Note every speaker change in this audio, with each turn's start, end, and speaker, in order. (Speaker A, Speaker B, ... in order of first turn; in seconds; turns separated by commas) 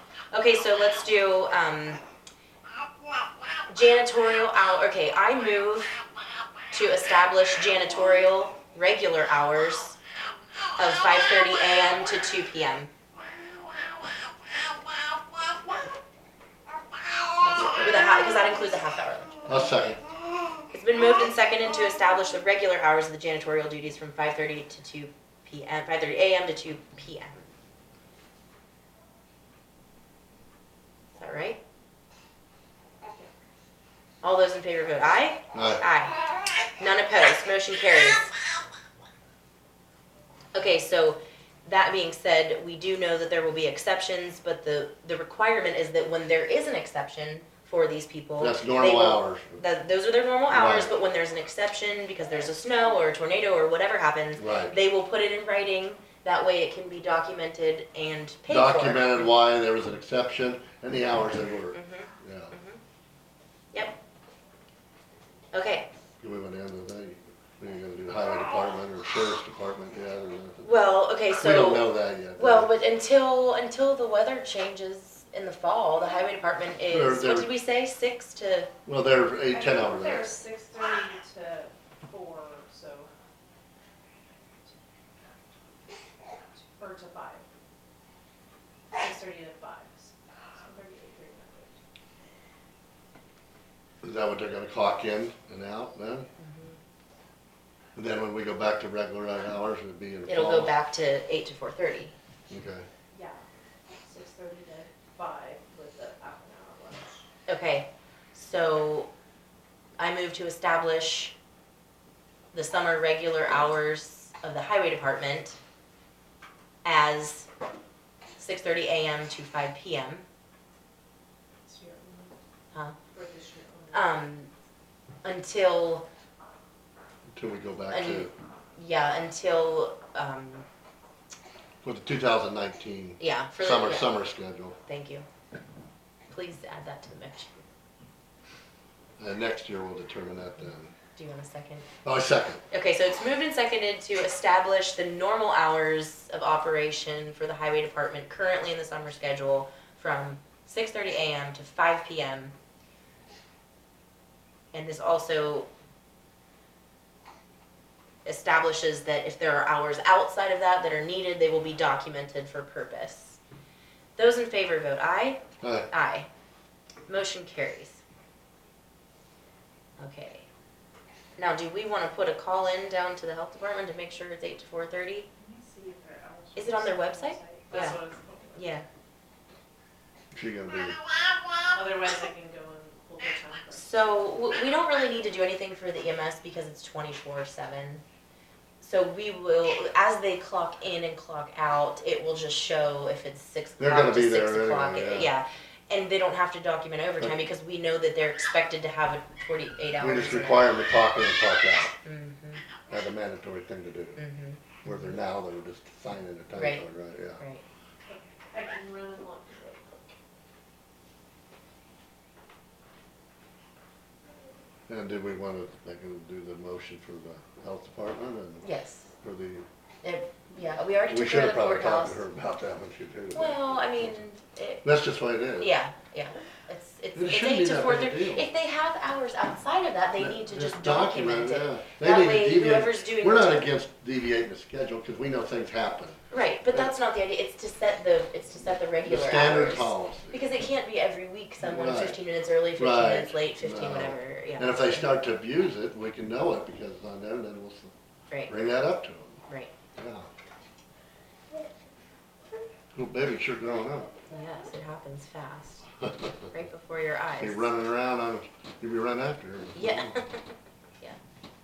Speaker A: 0.3-2.0, Speaker A: 3.7-6.0, Speaker A: 6.7-10.0, Speaker A: 10.8-12.9, Speaker A: 17.4-19.7, Speaker B: 19.5-20.0, Speaker A: 20.7-27.4, Speaker A: 31.2-31.6, Speaker A: 34.2-36.2, Speaker B: 35.5-35.8, Speaker A: 36.8-38.3, Speaker A: 40.5-59.3, Speaker B: 48.4-49.6, Speaker B: 50.5-50.9, Speaker B: 54.4-54.8, Speaker B: 58.5-62.5, Speaker A: 61.7-62.8, Speaker A: 63.7-64.0, Speaker A: 65.5-65.9, Speaker B: 66.2-72.8, Speaker A: 70.6-78.7, Speaker B: 76.9-77.5, Speaker B: 78.8-80.3, Speaker C: 79.5-83.1, Speaker C: 86.5-87.4, Speaker C: 89.0-91.8, Speaker B: 94.0-96.3, Speaker A: 96.4-96.8, Speaker B: 98.0-100.8, Speaker A: 100.3-102.1, Speaker B: 102.5-102.9, Speaker C: 103.1-103.4, Speaker C: 104.0-107.2, Speaker A: 107.5-109.1, Speaker A: 110.0-111.3, Speaker A: 112.5-115.6, Speaker A: 116.8-117.5, Speaker A: 118.4-120.2, Speaker C: 121.6-122.3, Speaker C: 123.1-124.2, Speaker A: 123.9-124.5, Speaker A: 125.2-126.0, Speaker B: 127.3-128.3, Speaker A: 127.9-130.7, Speaker B: 131.8-134.8, Speaker A: 133.2-134.2, Speaker A: 134.8-135.2, Speaker A: 136.3-137.7, Speaker B: 139.2-140.9, Speaker A: 141.1-141.8, Speaker B: 142.0-142.6, Speaker A: 142.7-152.5, Speaker A: 154.7-155.7, Speaker A: 158.2-163.4, Speaker A: 164.2-166.3, Speaker B: 165.6-165.9, Speaker A: 167.1-168.0, Speaker A: 170.0-170.4, Speaker A: 171.4-175.3, Speaker C: 175.4-178.7, Speaker A: 176.5-178.0, Speaker A: 178.5-178.8, Speaker B: 180.3-181.0, Speaker C: 181.7-184.0, Speaker A: 183.7-188.0, Speaker A: 188.8-200.7, Speaker B: 193.8-195.3, Speaker B: 200.0-201.9, Speaker A: 202.0-202.6, Speaker B: 202.9-204.2, Speaker A: 204.2-205.2, Speaker B: 204.8-207.4, Speaker A: 206.5-206.8, Speaker A: 207.4-207.6, Speaker C: 208.1-210.1, Speaker B: 214.9-218.7, Speaker A: 218.6-219.1, Speaker B: 219.2-219.7, Speaker A: 220.0-222.2, Speaker B: 221.1-224.1, Speaker A: 223.3-224.9, Speaker B: 224.8-225.7, Speaker A: 225.5-233.7, Speaker B: 227.1-228.5, Speaker B: 230.2-236.2, Speaker A: 236.3-245.1, Speaker B: 239.0-240.5, Speaker B: 241.6-242.2, Speaker B: 242.8-247.9, Speaker B: 248.5-249.4, Speaker A: 249.5-249.7, Speaker B: 250.0-250.3, Speaker B: 252.9-254.1, Speaker A: 254.3-255.9, Speaker A: 256.5-257.7, Speaker B: 257.4-260.2, Speaker A: 259.7-261.2